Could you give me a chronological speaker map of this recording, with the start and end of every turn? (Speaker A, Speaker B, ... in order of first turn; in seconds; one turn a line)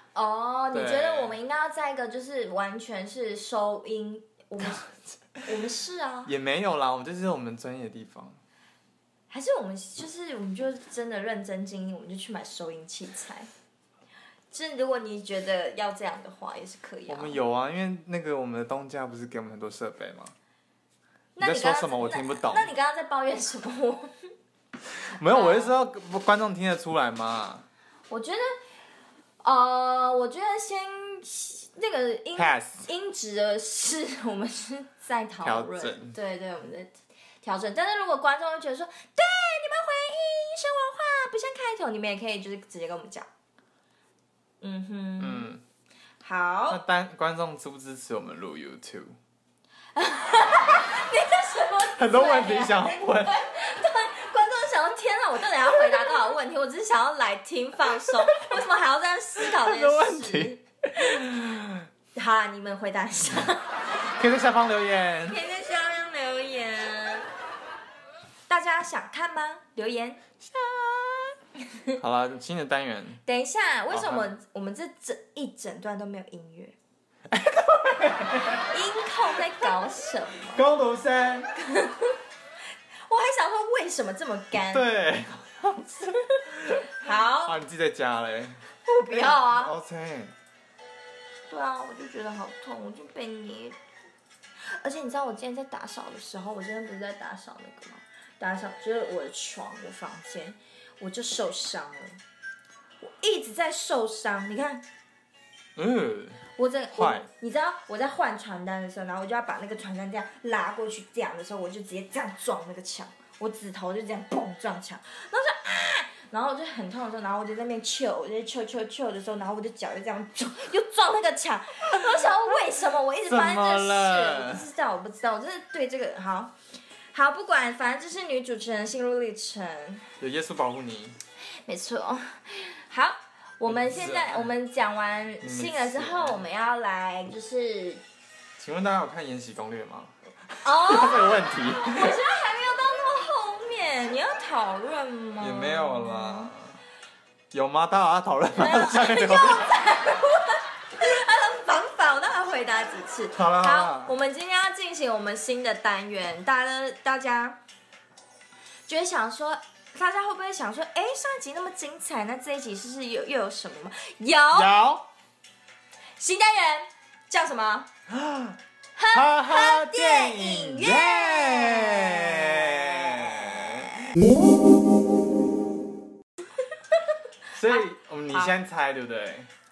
Speaker A: 0.1-4.9
Speaker B: 0.7-1.3
Speaker A: 5.4-6.3
Speaker B: 6.2-8.4
Speaker A: 9.3-13.5
Speaker A: 14.5-17.4
Speaker B: 17.1-20.3
Speaker A: 21.4-24.1
Speaker B: 21.4-22.7
Speaker B: 25.0-27.6
Speaker A: 25.1-25.7
Speaker A: 28.1-28.6
Speaker A: 29.4-43.3
Speaker B: 32.3-32.9
Speaker B: 35.4-36.1
Speaker A: 44.6-45.5
Speaker B: 45.2-45.6
Speaker A: 46.2-46.8
Speaker B: 46.7-49.2
Speaker A: 49.9-60.6
Speaker B: 52.0-53.4
Speaker B: 58.1-58.6
Speaker B: 59.4-61.9
Speaker A: 62.1-63.7
Speaker B: 64.1-65.4
Speaker A: 65.3-67.2
Speaker A: 68.5-72.0
Speaker B: 72.0-73.2
Speaker A: 73.2-76.8
Speaker B: 73.9-74.3
Speaker B: 77.3-78.7
Speaker A: 78.7-80.6
Speaker B: 80.5-81.5
Speaker A: 81.5-82.2
Speaker A: 83.1-84.8
Speaker B: 84.7-90.3
Speaker A: 87.0-87.6
Speaker A: 88.8-89.7
Speaker A: 91.5-93.8
Speaker A: 94.6-102.2
Speaker A: 103.0-104.8
Speaker B: 105.8-107.3
Speaker A: 106.6-126.5
Speaker B: 123.3-124.7
Speaker A: 127.1-130.0
Speaker B: 130.2-131.2
Speaker A: 131.7-138.0
Speaker B: 133.6-134.5
Speaker B: 135.4-136.4
Speaker B: 138.6-142.2
Speaker A: 140.6-146.5
Speaker B: 145.4-146.8
Speaker B: 147.5-149.8
Speaker A: 148.6-157.6
Speaker B: 153.3-154.2
Speaker A: 158.9-164.7
Speaker B: 164.5-165.1
Speaker A: 166.2-167.9
Speaker B: 168.1-168.6
Speaker A: 168.9-173.6
Speaker B: 169.1-173.9
Speaker B: 177.5-179.5
Speaker A: 177.6-178.5